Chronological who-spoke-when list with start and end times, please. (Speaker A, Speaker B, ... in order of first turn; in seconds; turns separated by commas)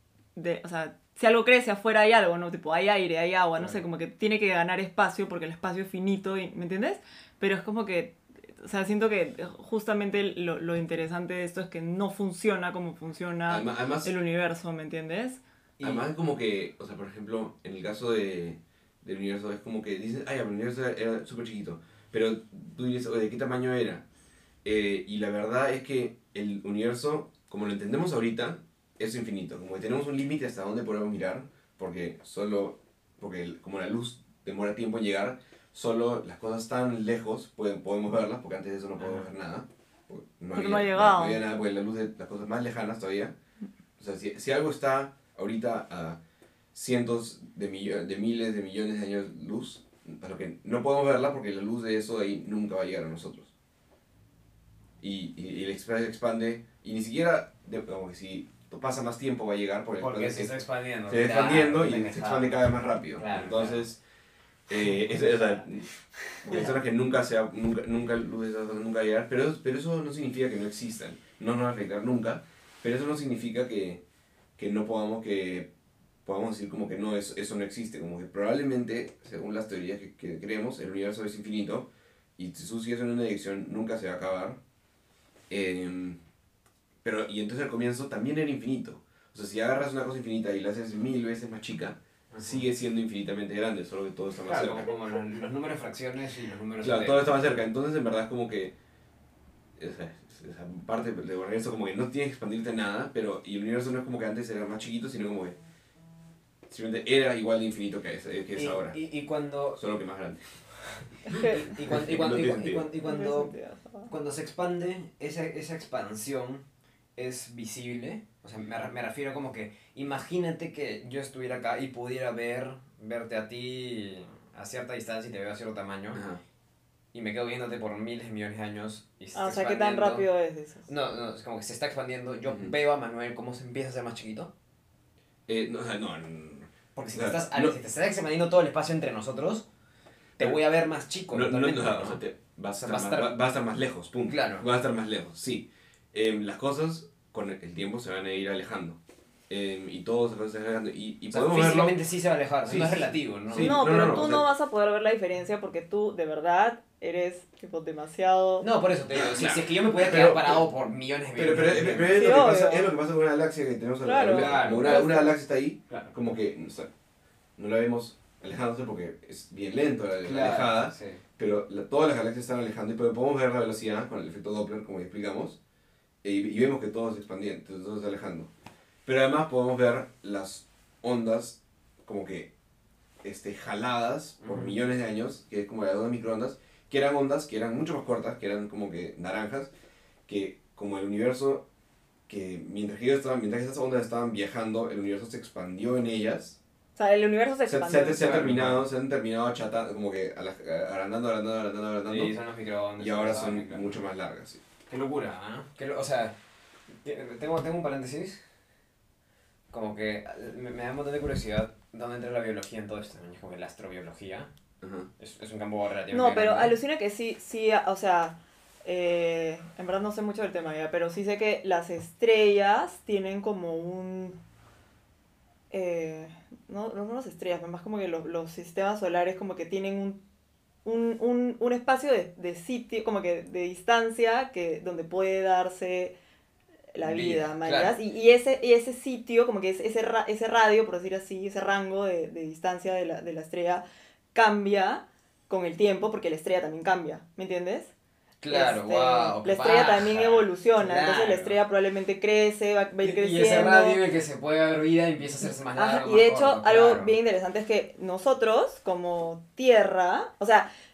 Speaker A: 0.3-15.4, Speaker B: 13.5-14.1, Speaker C: 15.8-16.0, Speaker B: 15.8-24.0, Speaker B: 24.6-43.3, Speaker C: 39.0-39.3, Speaker A: 40.5-41.4, Speaker B: 44.0-46.2, Speaker B: 46.7-53.5, Speaker B: 55.0-64.0, Speaker C: 60.0-62.6, Speaker C: 63.1-63.8, Speaker B: 64.7-65.9, Speaker C: 64.8-65.6, Speaker B: 66.4-74.0, Speaker C: 66.4-66.7, Speaker B: 74.6-75.7, Speaker B: 76.2-84.6, Speaker B: 85.5-86.2, Speaker B: 87.0-94.9, Speaker C: 92.3-92.7, Speaker C: 94.4-97.3, Speaker B: 96.8-98.8, Speaker B: 99.8-105.6, Speaker B: 106.7-109.0, Speaker C: 108.5-109.8, Speaker B: 109.8-110.8, Speaker A: 111.3-111.6, Speaker C: 111.3-113.5, Speaker B: 111.8-112.9, Speaker A: 113.0-114.1, Speaker C: 114.1-116.6, Speaker C: 117.2-126.2, Speaker B: 126.1-126.4, Speaker C: 127.1-130.2, Speaker A: 129.3-130.8, Speaker C: 130.9-134.5, Speaker B: 132.4-132.7, Speaker B: 135.5-137.8, Speaker C: 136.9-139.6, Speaker C: 140.4-142.2, Speaker B: 141.3-152.0, Speaker C: 142.8-143.3, Speaker C: 144.3-144.6, Speaker C: 151.3-153.8, Speaker B: 152.6-154.5, Speaker A: 153.6-158.7, Speaker C: 158.6-162.2, Speaker B: 159.1-160.7, Speaker B: 161.3-166.9, Speaker A: 162.1-162.9, Speaker A: 164.0-165.3, Speaker C: 164.2-165.1, Speaker C: 165.9-166.1, Speaker B: 167.6-175.6, Speaker C: 170.2-171.2, Speaker B: 176.2-178.5, Speaker B: 179.0-182.5, Speaker B: 183.2-189.7, Speaker C: 184.4-184.8, Speaker B: 190.3-191.7, Speaker B: 192.3-196.6, Speaker A: 196.9-198.3, Speaker B: 197.6-202.3, Speaker C: 198.2-198.9, Speaker C: 202.1-204.0, Speaker B: 203.0-204.6, Speaker C: 204.9-206.3, Speaker C: 206.9-208.4, Speaker C: 209.7-214.5, Speaker B: 214.8-215.1, Speaker C: 215.2-216.8, Speaker A: 216.1-224.4, Speaker A: 225.7-230.2, Speaker A: 230.8-236.2, Speaker A: 236.9-247.9, Speaker C: 237.0-238.0, Speaker C: 248.4-251.6, Speaker A: 248.5-254.0, Speaker C: 253.0-257.2, Speaker A: 255.6-260.7